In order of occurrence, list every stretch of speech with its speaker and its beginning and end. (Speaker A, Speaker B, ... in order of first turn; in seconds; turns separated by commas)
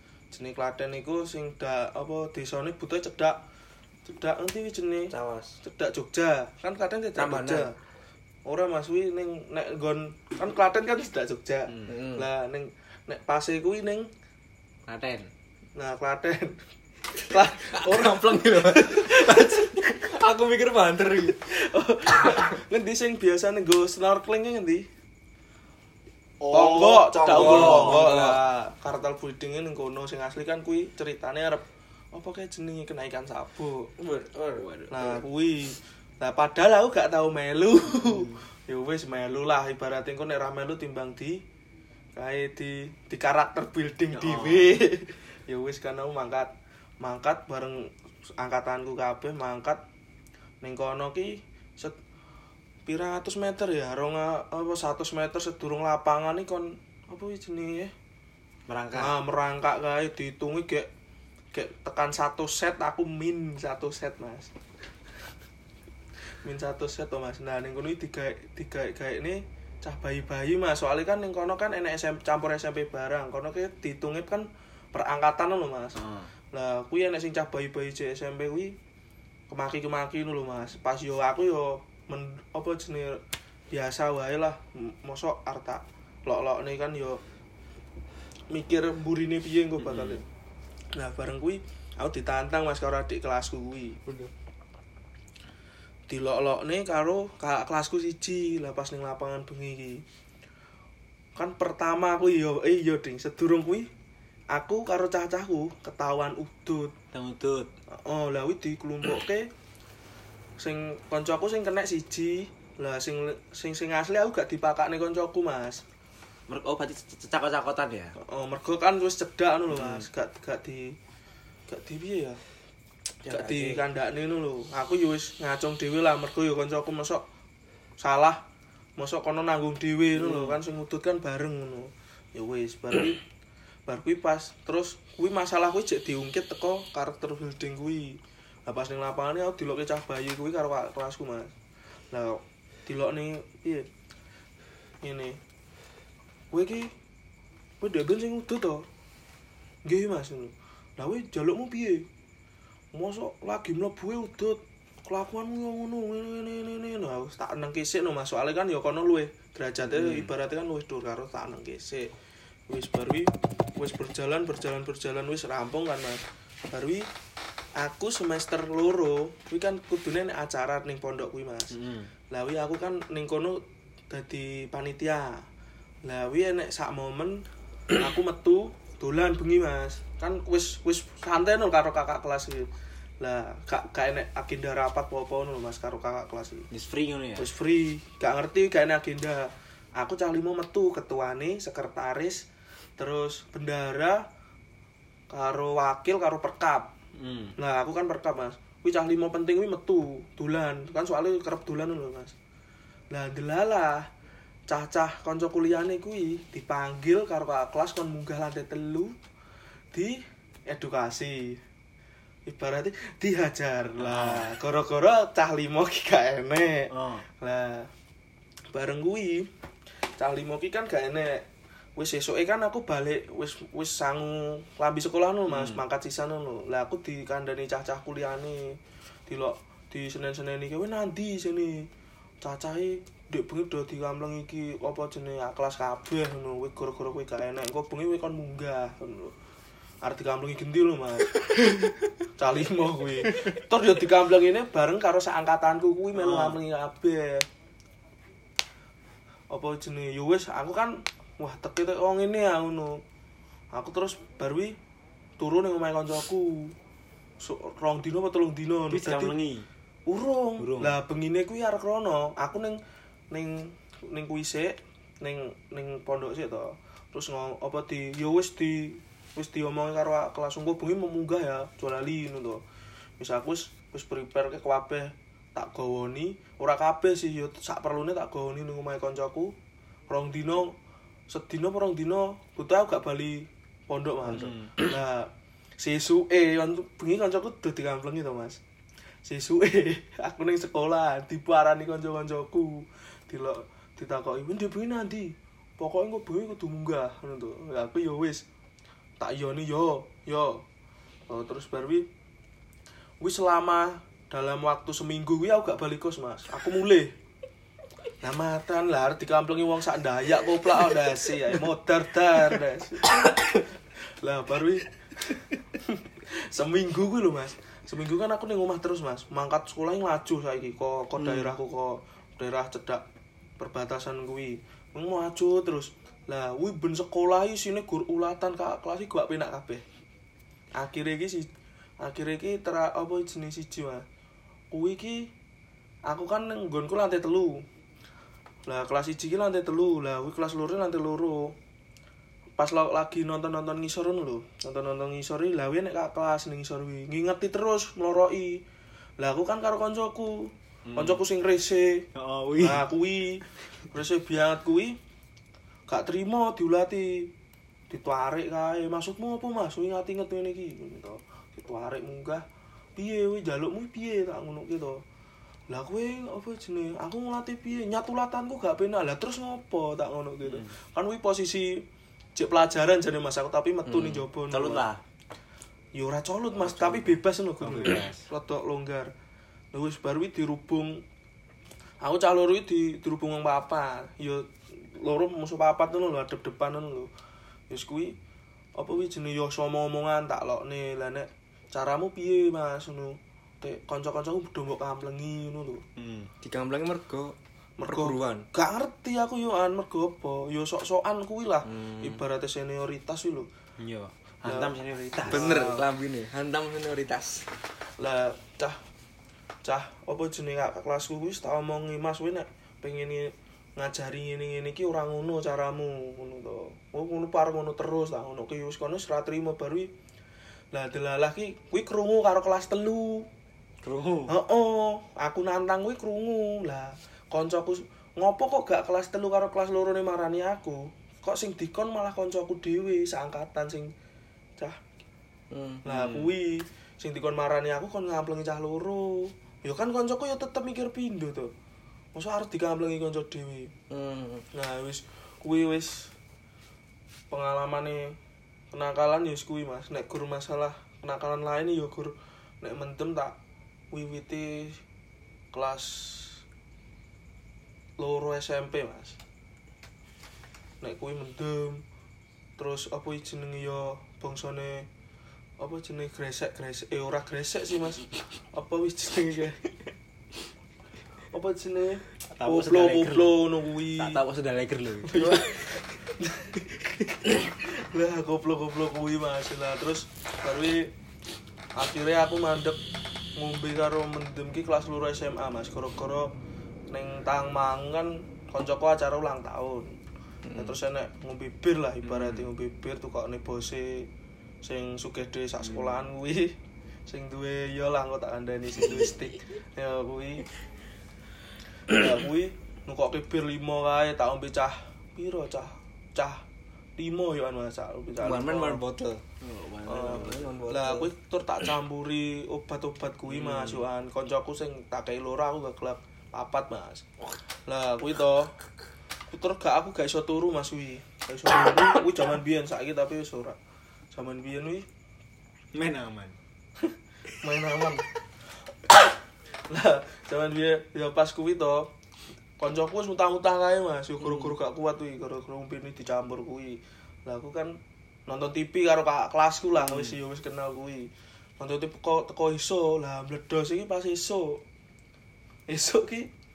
Speaker A: 0.3-3.4, Speaker A: 4.1-7.8, Speaker B: 5.1-5.6, Speaker B: 7.2-7.7, Speaker A: 8.5-14.1, Speaker C: 11.7-11.9, Speaker B: 11.9-12.3, Speaker C: 14.9-15.3, Speaker A: 15.8-16.6, Speaker A: 17.1-20.1, Speaker B: 17.3-21.5, Speaker A: 21.3-24.9, Speaker C: 26.4-28.3, Speaker A: 26.5-33.9, Speaker B: 27.1-28.4, Speaker B: 34.0-34.7, Speaker C: 34.6-35.2, Speaker A: 34.9-41.4, Speaker B: 38.0-38.3, Speaker A: 42.1-49.8, Speaker C: 44.1-44.8, Speaker A: 50.6-52.0, Speaker A: 52.9-57.9, Speaker C: 58.7-59.2, Speaker A: 59.0-60.9, Speaker A: 61.5-64.5, Speaker A: 66.4-76.0, Speaker C: 76.0-76.3, Speaker A: 76.5-78.8, Speaker A: 79.5-87.2, Speaker A: 88.5-90.2, Speaker C: 89.8-90.2, Speaker A: 90.9-94.0, Speaker B: 94.0-94.3, Speaker A: 96.1-100.0, Speaker A: 101.3-103.9, Speaker A: 104.5-106.9, Speaker C: 107.1-107.7, Speaker A: 107.9-109.5, Speaker A: 110.6-115.8, Speaker C: 116.5-118.2, Speaker A: 118.2-121.0, Speaker C: 119.7-120.1, Speaker A: 121.7-122.4, Speaker C: 123.3-123.8, Speaker A: 123.3-127.2, Speaker A: 128.0-128.4, Speaker A: 129.0-133.2, Speaker C: 130.2-130.6, Speaker A: 133.9-141.5, Speaker A: 142.1-143.9, Speaker A: 145.0-145.4, Speaker A: 146.5-146.9, Speaker A: 147.8-148.9, Speaker A: 149.8-152.1, Speaker A: 152.9-162.1, Speaker C: 159.8-160.3, Speaker A: 162.7-167.1, Speaker A: 167.8-171.7, Speaker C: 171.7-172.1, Speaker A: 172.3-175.5, Speaker A: 176.0-186.7, Speaker C: 186.7-187.5, Speaker A: 187.4-192.4, Speaker A: 193.0-194.3, Speaker A: 195.3-196.9, Speaker C: 197.2-197.6, Speaker A: 197.6-202.3, Speaker A: 203.1-204.1, Speaker A: 204.7-209.2, Speaker A: 209.9-211.6, Speaker A: 212.5-217.9, Speaker C: 214.0-214.5, Speaker C: 216.9-217.2, Speaker A: 218.7-219.5, Speaker A: 220.2-221.5, Speaker A: 222.0-231.9, Speaker C: 225.5-225.8, Speaker A: 232.4-239.3, Speaker A: 240.0-247.5, Speaker C: 246.2-246.6, Speaker A: 249.5-253.0, Speaker A: 253.7-254.8, Speaker A: 255.4-256.8, Speaker A: 257.4-259.4, Speaker C: 258.9-259.7, Speaker A: 260.1-262.8, Speaker C: 260.6-261.0, Speaker A: 263.3-272.6, Speaker A: 273.2-279.6, Speaker A: 280.1-280.8, Speaker A: 281.3-288.6, Speaker C: 284.2-284.8, Speaker A: 289.2-298.4, Speaker A: 299.2-300.6, Speaker A: 301.3-302.1, Speaker A: 303.2-307.1, Speaker A: 308.2-313.6, Speaker A: 314.2-323.0, Speaker B: 321.2-321.5, Speaker A: 323.6-329.9, Speaker A: 330.8-331.5, Speaker A: 332.0-334.1, Speaker A: 334.7-335.3, Speaker A: 336.1-337.6, Speaker A: 338.7-341.6, Speaker A: 342.6-348.6, Speaker A: 349.2-352.1, Speaker C: 350.9-351.2, Speaker C: 352.1-352.9, Speaker A: 352.6-355.0, Speaker A: 355.9-357.3, Speaker A: 357.9-362.4, Speaker A: 363.0-365.0, Speaker A: 365.7-374.8, Speaker C: 370.4-370.7, Speaker B: 373.9-374.3, Speaker C: 374.5-375.0, Speaker A: 375.9-379.1, Speaker C: 376.5-378.3, Speaker A: 379.7-381.0, Speaker A: 382.0-387.1, Speaker A: 387.7-388.2, Speaker A: 388.8-395.8, Speaker C: 396.0-396.3, Speaker B: 396.4-398.5, Speaker A: 397.8-403.5, Speaker C: 401.6-402.2, Speaker C: 403.8-405.7, Speaker A: 404.5-404.7, Speaker A: 405.2-405.9, Speaker B: 405.3-407.5, Speaker A: 408.0-408.8, Speaker A: 409.6-419.9, Speaker A: 420.7-423.3, Speaker C: 423.8-424.4, Speaker A: 424.3-433.9, Speaker B: 435.5-435.9, Speaker A: 435.9-441.5, Speaker C: 435.9-436.3, Speaker A: 442.1-443.7, Speaker B: 443.9-444.5, Speaker A: 444.5-446.1, Speaker A: 447.3-448.2, Speaker A: 448.7-453.4, Speaker A: 453.9-454.8, Speaker A: 455.5-456.4, Speaker A: 458.0-459.2, Speaker A: 460.8-461.8, Speaker A: 462.6-464.9, Speaker A: 465.6-469.8, Speaker A: 471.3-474.2, Speaker C: 472.3-473.4, Speaker C: 473.9-475.4, Speaker A: 475.1-480.9, Speaker A: 481.8-482.8, Speaker A: 483.4-486.3, Speaker A: 486.9-490.0, Speaker B: 490.5-490.8, Speaker A: 490.5-494.1, Speaker C: 492.0-492.5, Speaker A: 494.6-496.6, Speaker C: 495.6-496.0, Speaker A: 497.1-500.5, Speaker A: 501.9-506.4, Speaker A: 507.0-508.8, Speaker B: 508.2-509.2, Speaker C: 509.4-510.5, Speaker A: 509.9-517.1, Speaker B: 510.2-511.1, Speaker C: 513.3-513.9, Speaker A: 517.7-518.5, Speaker A: 519.3-523.6, Speaker A: 524.1-524.9, Speaker C: 525.7-526.4, Speaker A: 527.4-528.0, Speaker A: 529.7-531.9, Speaker A: 532.6-544.6, Speaker B: 534.2-534.5, Speaker C: 539.8-540.2, Speaker A: 545.7-546.3